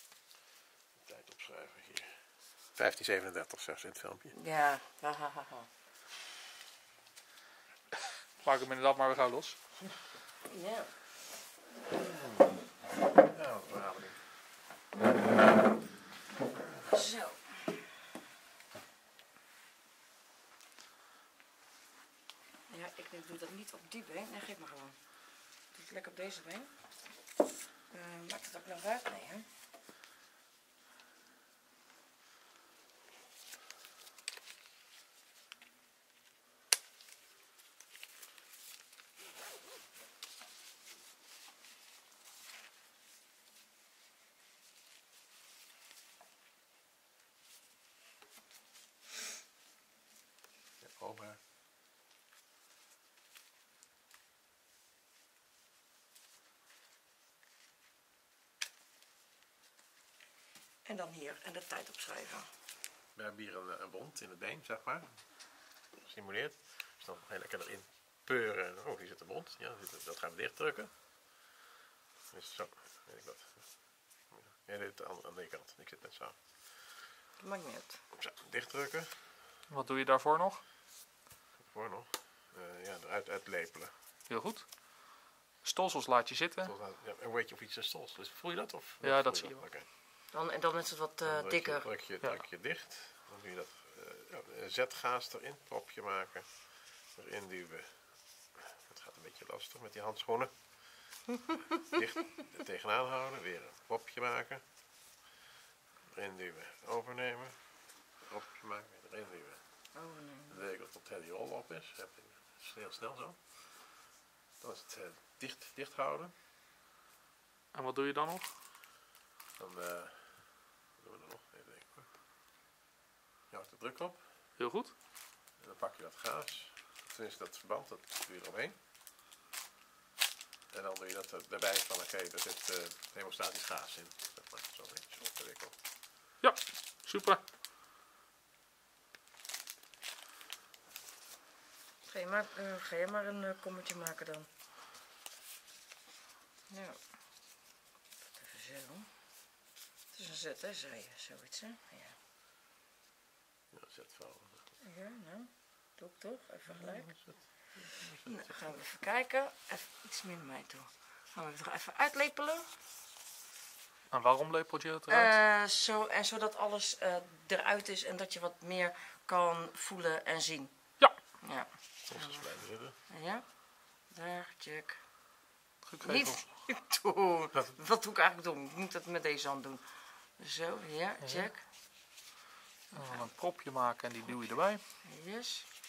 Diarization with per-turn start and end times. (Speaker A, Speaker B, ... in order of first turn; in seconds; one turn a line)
Speaker A: 1.0-4.3
Speaker B: 4.3-5.7
Speaker C: 8.4-9.6
Speaker B: 10.5-10.9
Speaker A: 12.0-12.5
Speaker A: 13.3-14.2
Speaker B: 16.9-17.4
Speaker B: 22.7-25.0
Speaker B: 25.7-26.7
Speaker B: 27.9-29.5
Speaker A: 50.8-51.4
Speaker B: 60.9-62.5
Speaker A: 63.1-70.9
Speaker A: 72.3-77.0
Speaker B: 77.4-78.0
Speaker A: 78.1-79.3
Speaker C: 79.7-80.6
Speaker A: 81.6-83.9
Speaker C: 84.3-86.7
Speaker A: 86.6-89.9
Speaker C: 89.0-89.6
Speaker B: 90.3-91.9
Speaker A: 91.2-101.2
Speaker A: 101.9-104.7
Speaker A: 106.1-109.8
Speaker B: 109.9-110.7
Speaker A: 110.5-113.9
Speaker A: 114.6-116.3
Speaker C: 117.7-118.5
Speaker A: 119.6-122.1
Speaker A: 123.5-124.3
Speaker C: 124.6-124.9
Speaker A: 125.6-128.8
Speaker A: 130.7-135.8
Speaker C: 136.4-137.4
Speaker B: 142.1-144.5
Speaker B: 146.7-147.0
Speaker B: 148.3-149.1
Speaker B: 150.1-152.2
Speaker A: 153.7-154.6
Speaker B: 154.8-157.1
Speaker A: 156.7-158.8
Speaker B: 158.3-162.7
Speaker C: 164.1-165.3
Speaker B: 165.1-172.5
Speaker A: 172.1-172.9
Speaker B: 173.1-175.0
Speaker C: 175.8-176.4
Speaker B: 176.0-179.8
Speaker B: 180.4-181.6
Speaker C: 181.2-181.5
Speaker B: 182.9-183.3
Speaker C: 182.9-184.8
Speaker B: 184.2-185.7